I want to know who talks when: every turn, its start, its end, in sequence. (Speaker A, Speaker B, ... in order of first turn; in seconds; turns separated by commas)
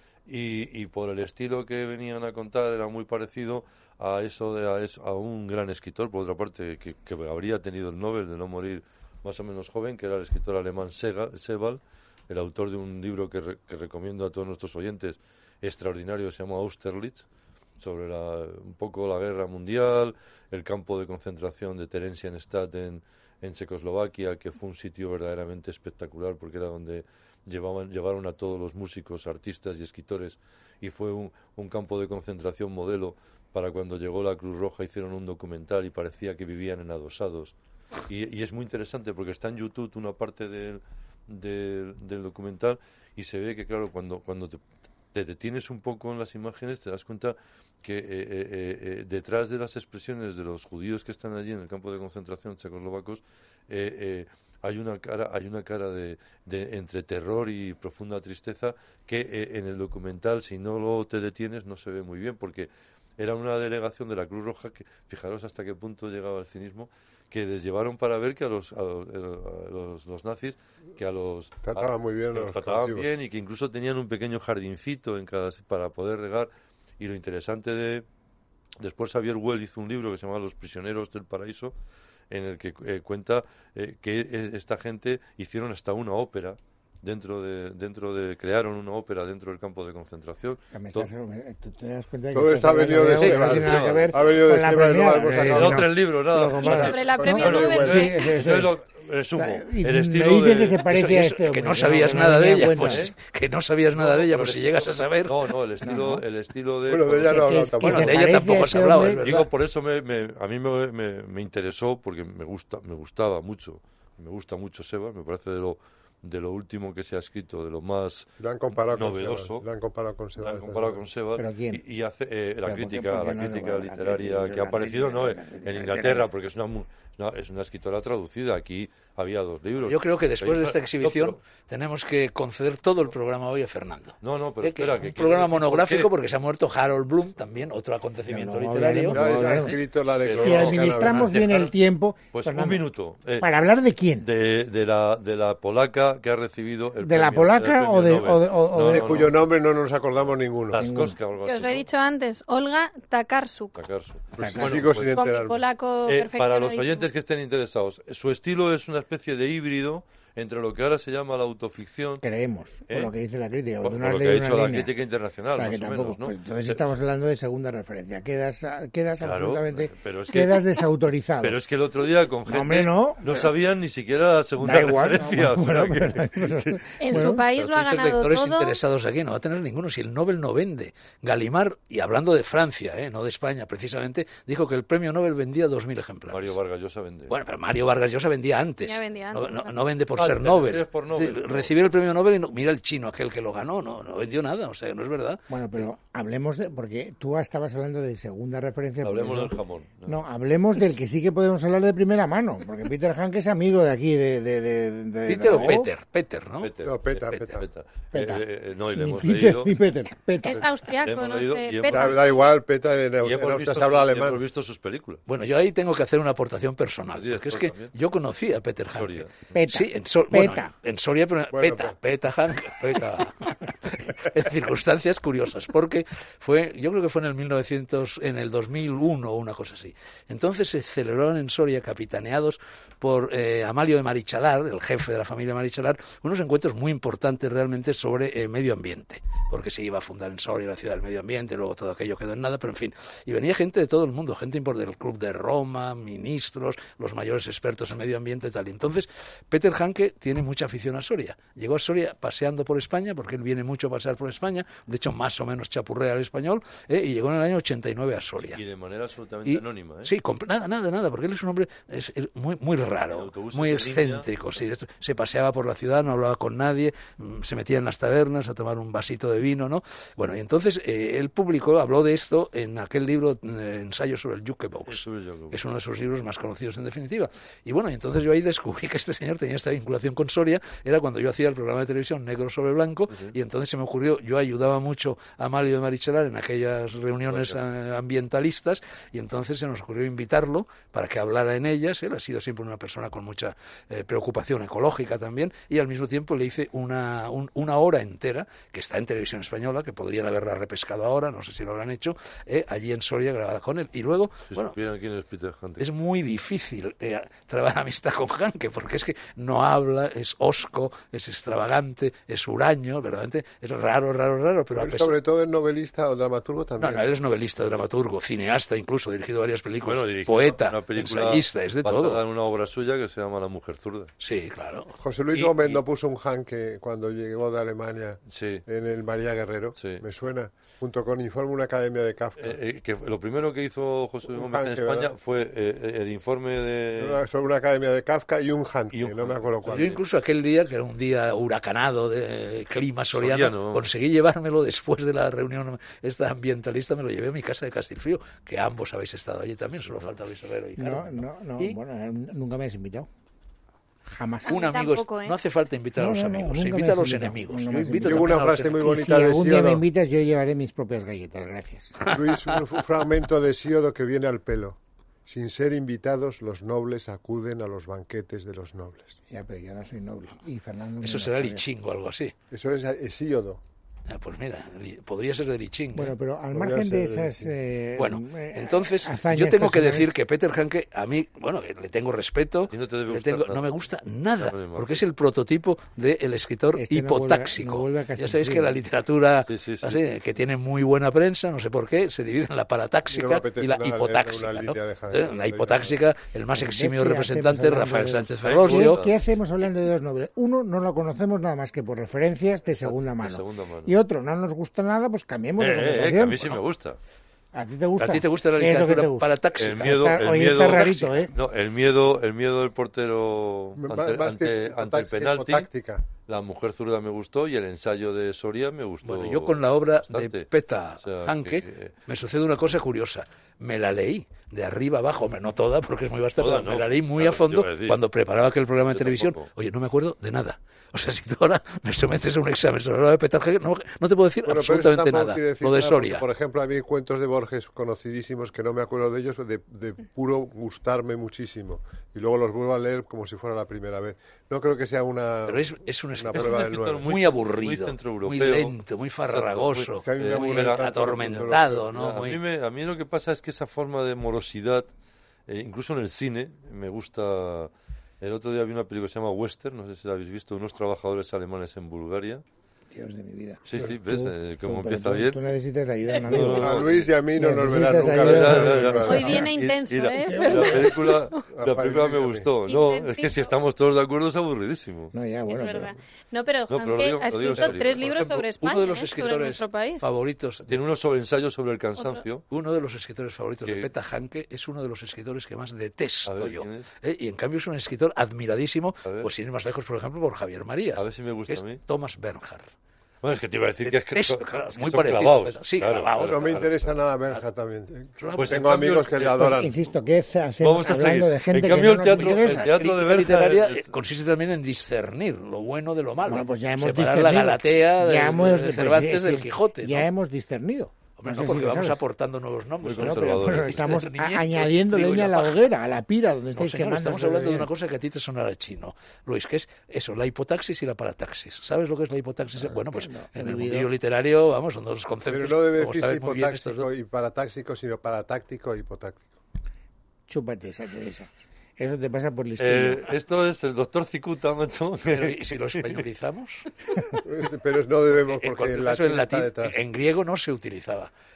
Speaker A: 0.3-17.2, Speaker A: 17.8-37.5, Speaker A: 38.1-44.6, Speaker A: 45.1-78.0, Speaker B: 71.6-73.1, Speaker A: 78.8-81.7, Speaker A: 82.3-91.1, Speaker C: 90.7-98.8, Speaker B: 92.3-95.9, Speaker A: 93.2-94.2, Speaker A: 95.4-101.0, Speaker D: 96.6-98.3, Speaker B: 96.6-98.1, Speaker C: 99.3-103.1, Speaker E: 100.9-105.3, Speaker A: 102.8-103.1, Speaker A: 103.9-107.5, Speaker C: 105.8-106.2, Speaker B: 106.9-108.4, Speaker C: 107.2-109.4, Speaker E: 107.8-109.5, Speaker A: 109.2-118.3, Speaker B: 118.4-121.0, Speaker A: 118.9-119.6, Speaker A: 120.4-131.4, Speaker C: 121.3-121.8, Speaker C: 122.6-126.3, Speaker E: 129.9-139.7, Speaker A: 134.2-136.1, Speaker C: 138.3-139.8, Speaker B: 139.1-141.4, Speaker A: 140.2-141.7, Speaker C: 140.3-142.8, Speaker A: 142.3-143.5, Speaker C: 143.4-144.3, Speaker A: 144.2-149.4, Speaker C: 147.0-149.3, Speaker B: 148.8-150.8, Speaker A: 150.7-151.8, Speaker C: 150.8-151.2, Speaker D: 151.4-153.8, Speaker A: 153.8-155.2, Speaker B: 154.3-155.6, Speaker C: 154.4-154.8, Speaker D: 154.8-157.0, Speaker A: 156.1-162.2, Speaker C: 162.2-164.9, Speaker A: 163.8-166.9, Speaker C: 165.5-171.6, Speaker A: 169.2-170.6, Speaker A: 171.4-177.2, Speaker C: 172.4-173.5, Speaker C: 174.6-177.4, Speaker D: 177.0-178.8, Speaker E: 177.5-186.6, Speaker A: 186.3-187.3, Speaker E: 187.3-195.4, Speaker D: 188.8-189.8, Speaker A: 190.2-191.7, Speaker C: 195.5-205.9, Speaker A: 199.0-200.2, Speaker E: 205.3-206.7, Speaker A: 206.6-209.8, Speaker B: 206.8-207.7, Speaker C: 208.1-210.7, Speaker D: 210.4-212.2, Speaker A: 211.0-212.4, Speaker B: 211.9-214.4, Speaker A: 213.2-215.2, Speaker E: 215.3-258.6, Speaker A: 217.1-217.9, Speaker A: 218.9-219.5, Speaker C: 219.5-220.7, Speaker B: 221.5-221.9, Speaker A: 258.4-260.1, Speaker E: 259.4-304.8, Speaker A: 263.1-264.3, Speaker A: 274.9-275.6, Speaker A: 287.3-287.6, Speaker A: 304.5-305.9, Speaker E: 305.8-315.1, Speaker B: 314.8-317.1, Speaker E: 316.8-322.2, Speaker A: 319.8-324.1, Speaker E: 324.2-325.0, Speaker B: 325.0-332.6, Speaker A: 325.3-325.8, Speaker A: 328.3-328.6, Speaker A: 329.8-330.0, Speaker A: 332.4-337.2, Speaker B: 334.3-335.1, Speaker B: 337.0-339.9, Speaker A: 338.9-340.0, Speaker E: 339.6-351.8, Speaker A: 343.1-343.9, Speaker C: 350.8-353.1, Speaker C: 354.1-354.6, Speaker D: 354.4-355.4, Speaker E: 354.4-359.0, Speaker C: 356.0-362.0, Speaker B: 358.0-359.8, Speaker B: 362.0-369.2, Speaker C: 369.3-371.6, Speaker E: 371.0-372.3, Speaker B: 372.5-373.6, Speaker E: 374.1-376.1, Speaker C: 375.9-380.1, Speaker B: 376.5-377.5, Speaker E: 377.9-399.0, Speaker A: 382.7-383.8, Speaker A: 384.4-385.0, Speaker C: 386.7-388.8, Speaker A: 389.5-390.0, Speaker B: 393.1-396.0, Speaker C: 396.5-406.6, Speaker A: 398.4-399.1, Speaker A: 402.8-403.9, Speaker A: 405.6-407.0, Speaker C: 407.5-411.3, Speaker E: 408.0-410.1, Speaker A: 409.6-415.7, Speaker E: 410.6-411.2, Speaker B: 413.8-416.0, Speaker A: 416.2-420.5, Speaker E: 419.0-436.2, Speaker A: 421.0-421.9, Speaker A: 426.4-428.0, Speaker A: 428.9-429.5, Speaker B: 434.4-447.1, Speaker E: 445.5-452.4, Speaker A: 446.3-448.8, Speaker A: 449.3-454.9, Speaker B: 450.0-451.9, Speaker A: 455.5-457.7, Speaker A: 458.2-462.4, Speaker C: 462.9-469.5, Speaker A: 463.6-465.4, Speaker A: 466.2-467.1, Speaker B: 466.3-469.4, Speaker A: 468.1-475.1, Speaker D: 469.1-471.5, Speaker C: 470.3-470.9, Speaker B: 471.5-472.5, Speaker D: 472.7-473.5, Speaker C: 475.1-475.9, Speaker D: 475.5-480.1, Speaker A: 476.7-478.4, Speaker E: 477.6-480.8, Speaker A: 480.7-482.4, Speaker D: 482.0-482.2, Speaker E: 482.5-492.7, Speaker A: 486.2-486.9, Speaker A: 490.9-491.8, Speaker A: 493.2-496.9, Speaker E: 493.8-496.6, Speaker B: 496.2-499.7, Speaker E: 498.2-498.8, Speaker A: 498.4-499.7, Speaker C: 499.4-502.7, Speaker A: 500.6-503.9, Speaker E: 502.2-510.1, Speaker C: 506.2-512.0, Speaker E: 511.2-515.7, Speaker A: 512.8-513.9, Speaker C: 513.0-517.7, Speaker E: 516.5-526.9, Speaker C: 522.7-523.9, Speaker B: 525.3-529.3, Speaker C: 530.3-533.0, Speaker A: 532.6-536.0, Speaker E: 535.1-536.7, Speaker B: 537.2-539.8, Speaker E: 538.2-541.1